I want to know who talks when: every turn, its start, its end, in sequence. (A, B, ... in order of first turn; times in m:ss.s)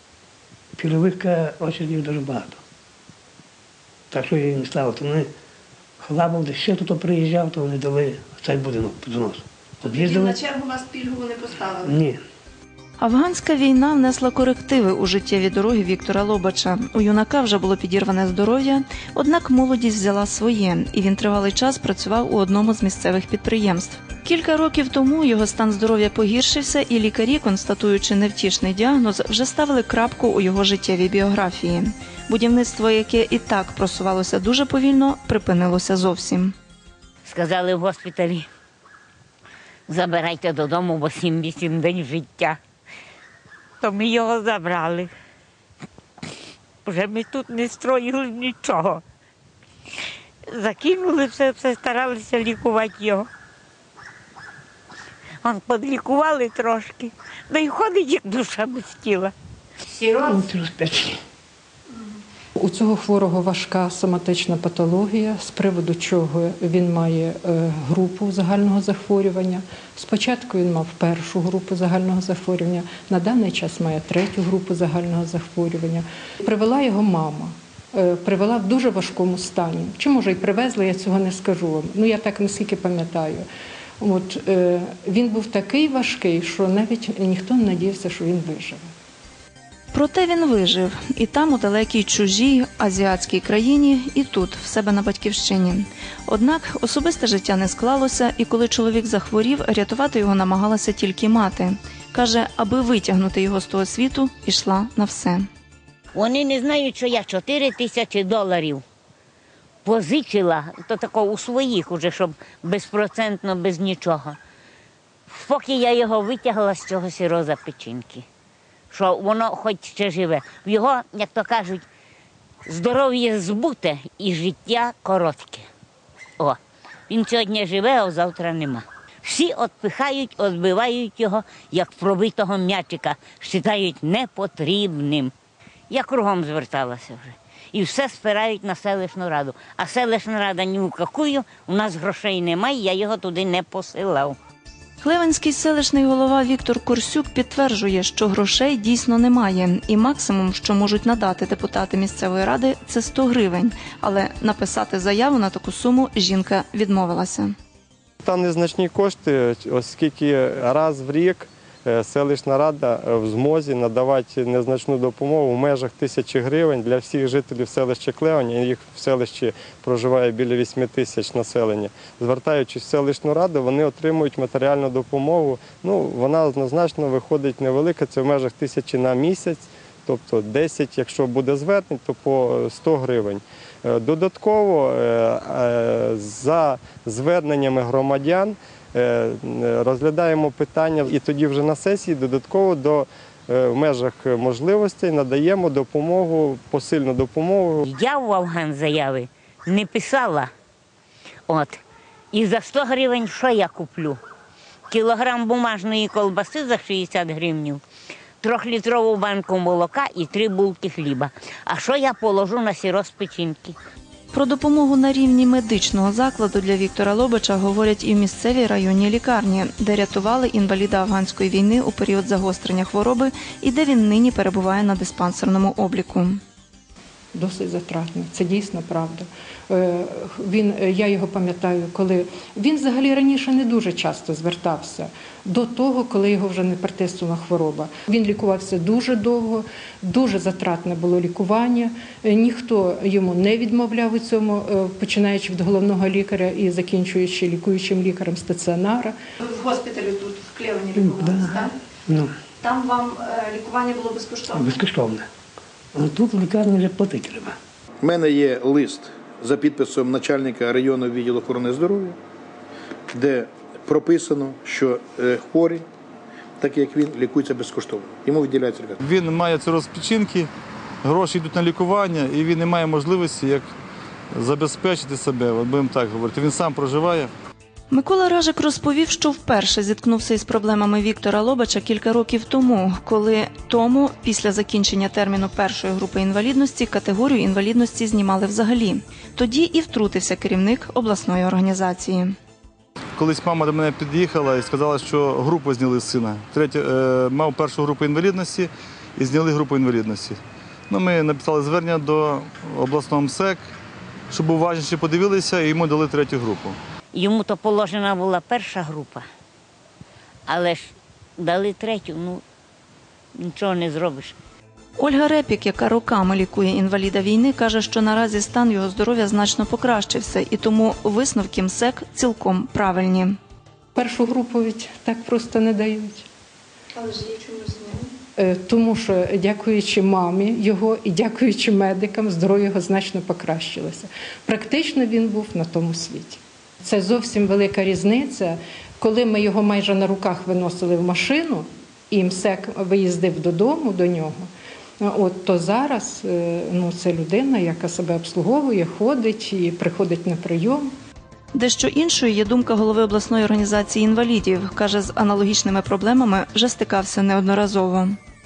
0:00.7-0:02.6 A
0:04.1-0:05.3 A
0:06.0-0:10.4 A
0:09.8-0:11.9 B
0:11.8-0:12.2 A
0:13.0-0:36.5 B
0:37.2-0:38.5 C
0:39.9-0:42.6 C
0:43.8-0:45.1 C
0:46.8-0:49.0 C
0:50.5-0:53.3 C
0:55.4-0:59.3 C
0:59.9-1:00.4 C
1:00.2-1:01.2 A
1:02.6-1:23.4 D
1:24.0-1:28.9 D
1:29.9-1:45.5 B
1:46.1-1:48.8 C
1:49.8-1:54.4 C
1:55.3-1:58.2 C
1:58.9-2:01.8 C
2:02.6-2:05.7 C
2:07.1-2:15.3 C
2:15.9-2:24.4 C
2:25.0-2:37.5 B
2:38.2-3:17.9 E
3:17.8-3:20.5 C
3:21.5-3:21.8 C
3:22.3-3:24.2 C
3:24.9-3:27.8 C
3:28.4-3:33.8 C
3:34.3-3:46.4 B
3:47.3-4:09.1 D
4:09.4-4:11.7 B
4:10.9-4:12.3 A
4:12.6-4:14.7 B
4:14.5-4:15.3 A
4:15.9-4:17.6 A
4:18.0-4:22.2 F
4:23.1-4:25.8 F
4:26.6-4:29.0 F
4:29.0-4:30.5 G
4:31.0-4:33.6 G
4:34.3-4:37.3 G
4:37.9-4:52.3 B
4:53.2-5:03.6 G
5:04.3-5:06.8 G
5:07.1-5:09.2 C
5:10.5-5:12.4 C
5:13.4-5:14.3 C
5:15.0-5:23.4 B
5:24.0-5:26.3 D
5:26.9-5:28.1 B
5:28.4-5:44.5 D
5:45.0-5:50.9 D
5:51.5-5:58.2 B